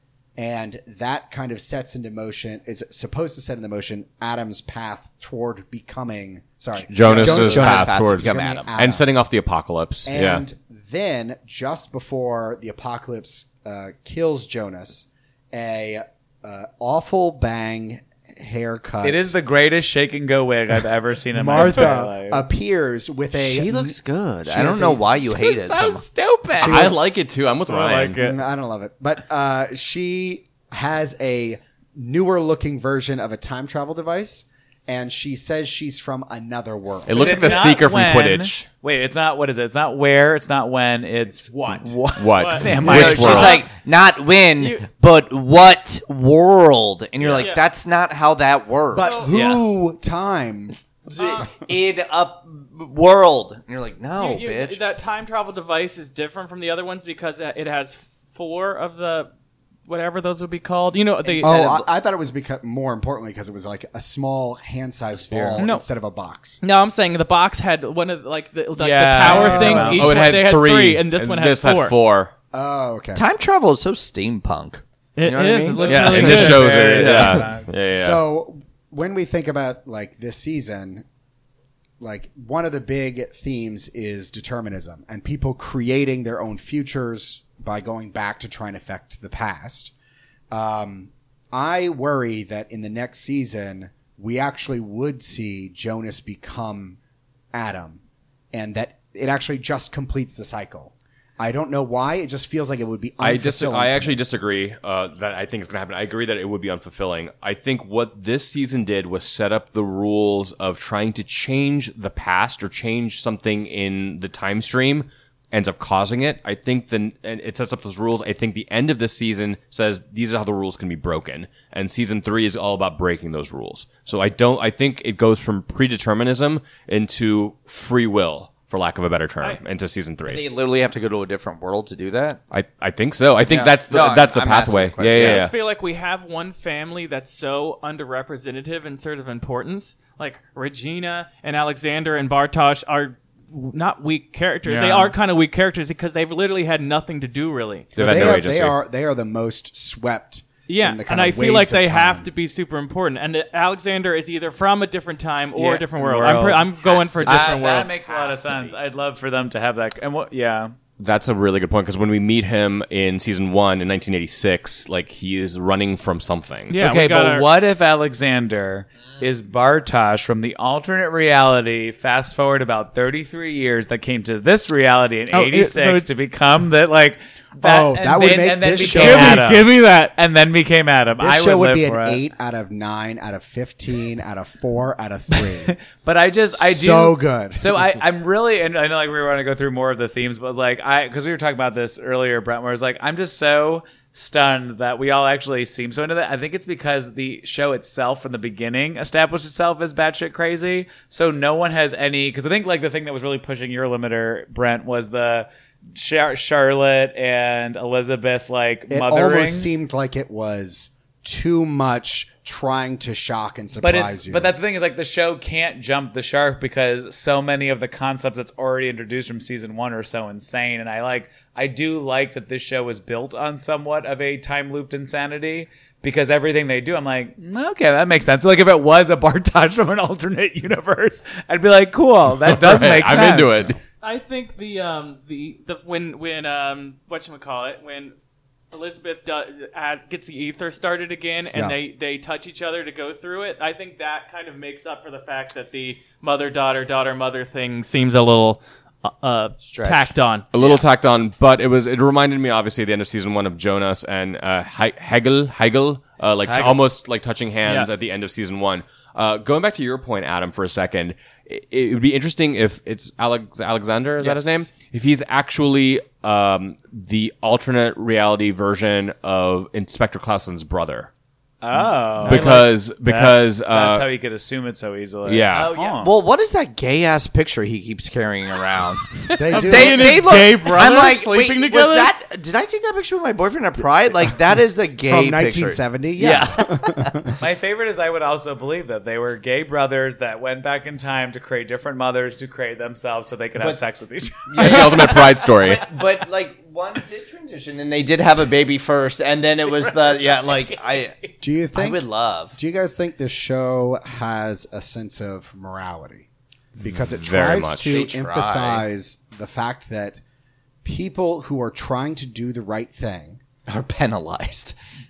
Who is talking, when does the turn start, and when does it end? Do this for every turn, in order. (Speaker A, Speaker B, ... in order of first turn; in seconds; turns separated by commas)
Speaker A: 0.4-9.1, Speaker B: 6.9-10.4, Speaker C: 7.0-8.7, Speaker A: 10.1-19.4, Speaker D: 19.0-22.4, Speaker A: 21.3-24.0, Speaker C: 23.4-26.9, Speaker A: 24.5-25.0, Speaker D: 24.6-25.2, Speaker E: 25.4-26.0, Speaker A: 26.5-27.1, Speaker B: 26.6-28.2, Speaker E: 27.7-28.4, Speaker A: 28.0-37.7, Speaker B: 37.1-38.7, Speaker D: 37.1-43.6, Speaker A: 41.2-42.0, Speaker B: 42.1-43.7, Speaker E: 42.3-43.6, Speaker C: 42.8-49.6, Speaker E: 47.4-47.6, Speaker A: 48.9-50.8, Speaker E: 48.9-49.3, Speaker C: 51.1-54.8, Speaker E: 51.2-51.5, Speaker E: 54.2-59.3, Speaker E: 59.9-61.5, Speaker C: 61.3-61.9, Speaker A: 61.4-66.6, Speaker C: 65.2-65.6, Speaker E: 65.6-65.8, Speaker E: 66.6-72.0, Speaker D: 68.8-70.3, Speaker A: 69.3-69.9, Speaker B: 69.8-72.3, Speaker A: 72.5-73.2, Speaker C: 73.2-77.2, Speaker E: 75.2-77.4, Speaker D: 75.8-77.7, Speaker B: 75.9-78.2, Speaker A: 77.9-81.0, Speaker A: 82.0-89.9, Speaker A: 90.5-97.0, Speaker A: 97.5-98.0, Speaker A: 98.5-104.2, Speaker B: 103.2-130.4, Speaker C: 130.2-132.4, Speaker B: 132.5-135.5, Speaker C: 133.5-135.5, Speaker E: 135.2-147.9, Speaker B: 144.7-145.1, Speaker B: 148.0-148.8, Speaker A: 148.0-152.3, Speaker E: 150.7-157.9, Speaker D: 155.6-160.7, Speaker C: 156.8-158.8, Speaker B: 161.0-166.8, Speaker E: 166.7-167.5, Speaker D: 166.8-182.2, Speaker E: 175.3-176.1, Speaker A: 177.6-179.4, Speaker E: 178.8-180.2, Speaker A: 181.2-185.8, Speaker D: 185.3-209.7, Speaker A: 186.6-187.8, Speaker A: 208.9-214.6, Speaker D: 213.8-233.7, Speaker B: 232.4-233.8, Speaker E: 234.0-238.2, Speaker E: 238.7-250.5, Speaker C: 249.6-250.7, Speaker B: 250.5-271.1, Speaker C: 256.4-256.8, Speaker D: 264.2-264.6, Speaker D: 271.6-276.1, Speaker E: 272.2-272.6, Speaker B: 272.2-274.1, Speaker B: 275.2-275.7, Speaker C: 275.5-287.1, Speaker E: 279.3-282.1, Speaker A: 279.4-280.4, Speaker A: 285.0-287.4, Speaker D: 287.4-295.4, Speaker C: 294.5-302.6, Speaker B: 294.6-295.9, Speaker A: 301.4-310.2, Speaker B: 307.0-308.0, Speaker C: 307.4-308.8, Speaker A: 310.8-313.4, Speaker C: 313.7-314.8